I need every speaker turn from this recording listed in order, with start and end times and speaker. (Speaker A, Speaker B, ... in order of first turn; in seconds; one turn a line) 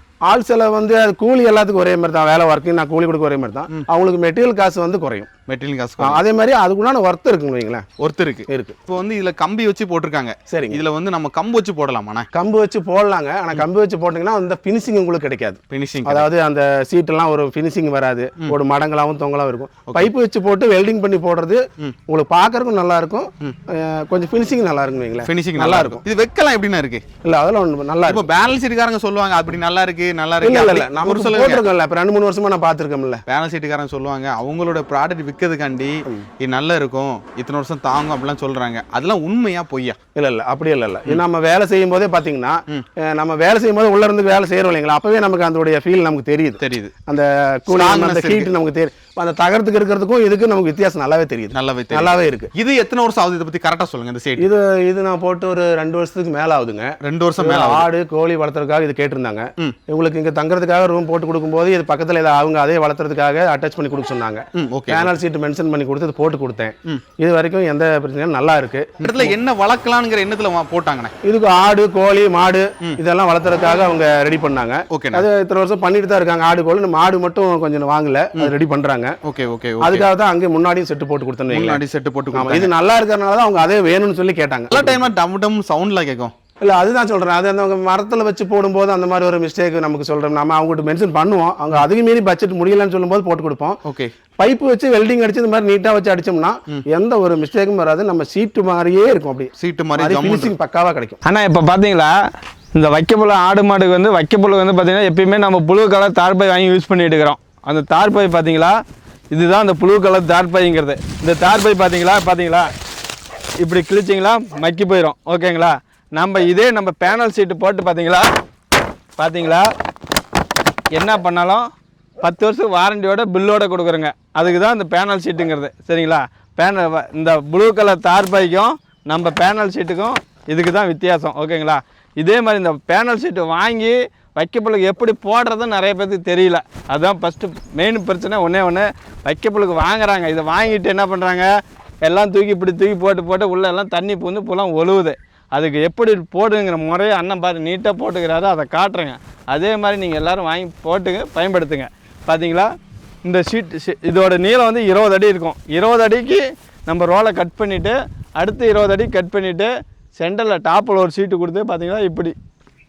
Speaker A: 0.2-5.3
Speaker B: 5.5-6.2
Speaker A: 6.0-7.9
Speaker B: 8.0-12.3
Speaker A: 8.5-8.8
Speaker A: 10.5-10.8
Speaker A: 12.3-26.0
Speaker B: 15.7-16.3
Speaker B: 25.2-27.0
Speaker A: 27.2-28.2
Speaker B: 28.1-31.6
Speaker A: 30.4-33.2
Speaker B: 33.3-40.0
Speaker A: 40.1-52.5
Speaker B: 46.6-46.9
Speaker B: 47.7-48.5
Speaker B: 51.5-54.5
Speaker A: 54.4-69.3
Speaker B: 57.0-57.9
Speaker B: 64.6-65.2
Speaker B: 69.0-71.1
Speaker A: 71.2-79.2
Speaker B: 74.9-75.2
Speaker B: 79.2-80.1
Speaker A: 79.8-85.1
Speaker B: 81.5-82.7
Speaker B: 84.7-86.3
Speaker A: 86.6-93.8
Speaker B: 93.8-94.1
Speaker A: 94.4-101.2
Speaker B: 99.6-100.5
Speaker C: 101.2-102.1
Speaker C: 102.7-108.8
Speaker C: 109.3-112.7
Speaker C: 113.6-118.3
Speaker C: 119.2-119.7
Speaker C: 120.9-121.7
Speaker C: 122.2-141.5
Speaker C: 142.0-152.7
Speaker C: 153.2-162.3